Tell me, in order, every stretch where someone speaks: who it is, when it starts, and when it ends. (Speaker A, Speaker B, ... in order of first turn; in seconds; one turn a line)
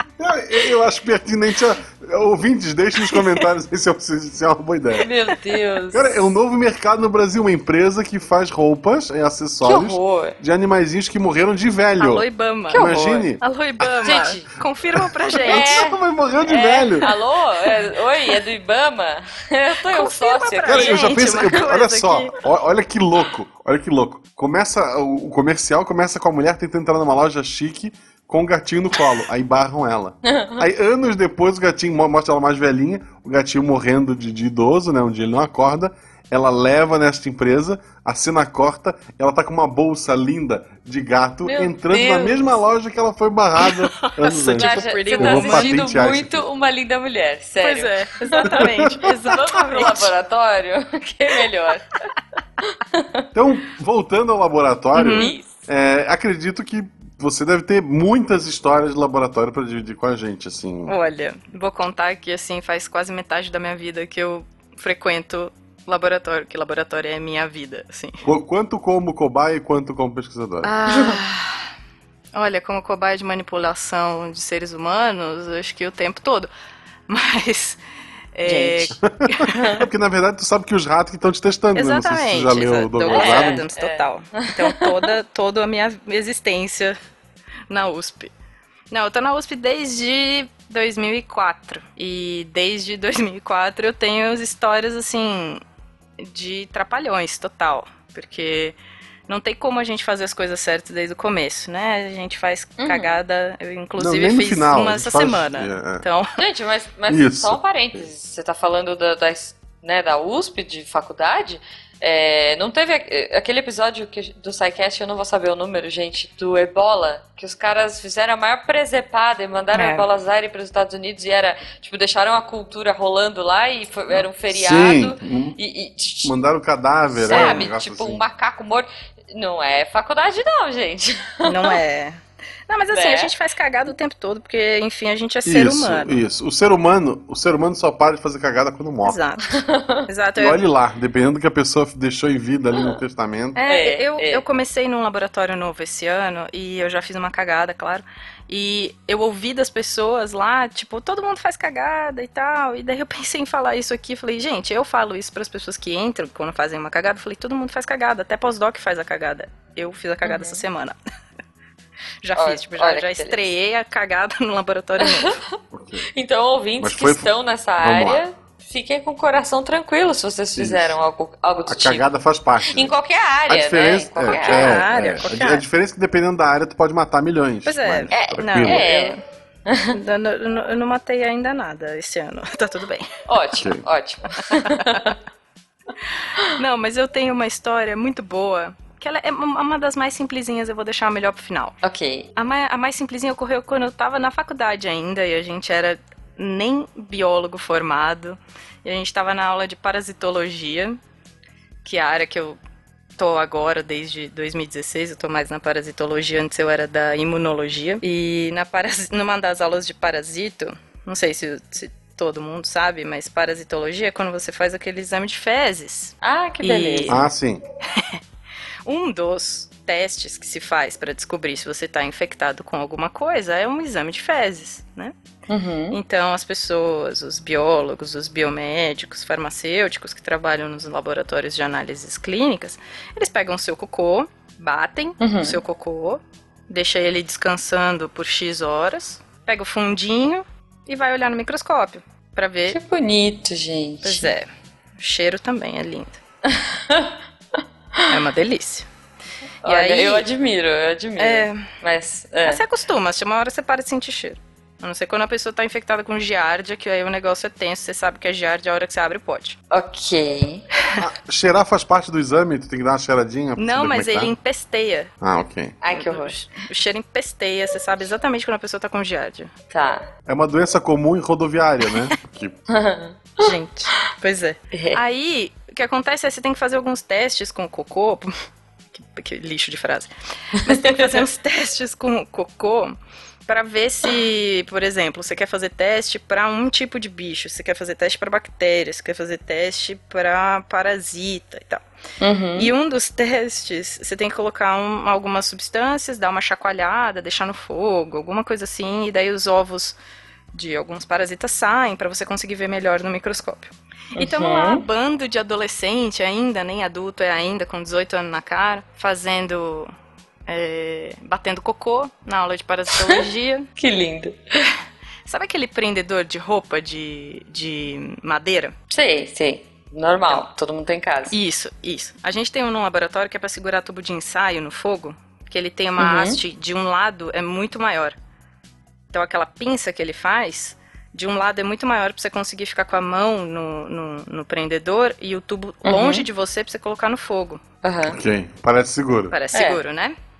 Speaker A: 0.2-5.1
Speaker B: 3.1-3.4
Speaker C: 5.0-6.2
Speaker A: 5.9-13.9
Speaker C: 9.6-10.4
Speaker B: 12.0-15.8
Speaker C: 12.7-13.2
Speaker C: 14.0-14.5
Speaker A: 14.9-17.1
Speaker C: 15.4-21.2
Speaker B: 19.9-22.3
Speaker A: 20.7-46.5
Speaker C: 30.2-30.6
Speaker C: 41.4-42.6
Speaker B: 44.0-45.7
Speaker C: 44.5-48.7
Speaker B: 47.6-50.1
Speaker A: 48.5-49.0
Speaker C: 49.3-52.1
Speaker C: 52.7-53.3
Speaker A: 53.3-61.0
Speaker B: 55.0-55.4
Speaker C: 55.0-55.5
Speaker B: 60.9-68.2
Speaker A: 68.2-70.7
Speaker B: 70.7-71.6
Speaker C: 70.8-71.2
Speaker B: 72.3-76.5
Speaker B: 77.1-77.8
Speaker B: 78.3-79.7
Speaker C: 78.4-79.0
Speaker A: 79.0-83.6
Speaker C: 79.5-79.8
Speaker B: 81.7-87.0
Speaker C: 83.1-84.9
Speaker B: 87.7-88.3
Speaker B: 88.9-95.6
Speaker B: 96.2-98.7
Speaker B: 99.3-106.3
Speaker C: 102.8-103.2
Speaker A: 104.0-106.0
Speaker C: 106.3-126.4
Speaker A: 107.1-107.6
Speaker B: 119.7-120.0
Speaker A: 124.5-125.6
Speaker A: 126.2-128.2
Speaker C: 127.1-131.8
Speaker B: 127.3-127.7
Speaker B: 131.4-136.2
Speaker C: 132.9-133.3
Speaker A: 135.4-139.2
Speaker B: 139.0-140.6
Speaker C: 139.5-140.1
Speaker A: 140.4-143.6
Speaker B: 143.5-160.9
Speaker C: 143.7-144.4
Speaker C: 160.2-160.6
Speaker B: 162.2-165.4
Speaker C: 162.3-163.4
Speaker C: 165.0-165.6
Speaker A: 165.7-166.1
Speaker C: 166.1-172.1
Speaker A: 166.8-168.2
Speaker A: 170.6-171.0
Speaker A: 171.7-172.9
Speaker C: 172.7-174.9
Speaker A: 173.5-178.9
Speaker B: 174.2-175.6
Speaker B: 177.6-179.2
Speaker C: 178.1-180.0
Speaker B: 179.9-183.1
Speaker C: 183.3-185.2
Speaker A: 183.6-183.8
Speaker B: 184.6-185.0
Speaker B: 186.4-191.8
Speaker C: 191.8-192.3
Speaker B: 192.3-201.0
Speaker B: 201.8-202.6
Speaker B: 203.2-217.2
Speaker C: 216.2-217.2
Speaker A: 217.1-217.6
Speaker B: 218.8-225.1
Speaker C: 225.5-226.0
Speaker B: 225.9-242.8
Speaker C: 235.2-235.6
Speaker C: 242.7-244.3
Speaker B: 244.0-244.5
Speaker B: 245.0-246.2
Speaker C: 246.5-247.1
Speaker B: 248.1-248.8
Speaker B: 249.6-250.2
Speaker C: 249.6-252.6
Speaker B: 251.2-251.7
Speaker B: 252.4-259.6
Speaker C: 259.7-260.7
Speaker A: 261.0-264.3
Speaker B: 263.6-265.1
Speaker A: 265.2-265.8
Speaker C: 265.8-266.3
Speaker B: 265.9-269.5
Speaker C: 269.7-270.1
Speaker A: 270.3-272.6
Speaker C: 272.7-273.5
Speaker B: 273.4-278.3
Speaker C: 274.7-275.0
Speaker B: 278.9-282.9
Speaker C: 280.6-281.2
Speaker B: 283.5-291.8
Speaker C: 292.2-292.7
Speaker B: 292.6-300.0
Speaker B: 300.5-309.9
Speaker C: 304.1-304.8
Speaker B: 310.5-313.7
Speaker C: 313.8-314.7
Speaker B: 315.2-318.7
Speaker C: 318.9-321.4
Speaker B: 321.3-328.1
Speaker C: 326.0-326.4
Speaker B: 329.1-337.6
Speaker C: 335.8-336.3
Speaker C: 337.8-338.2
Speaker A: 338.1-339.4
Speaker B: 339.3-340.1
Speaker C: 339.5-339.8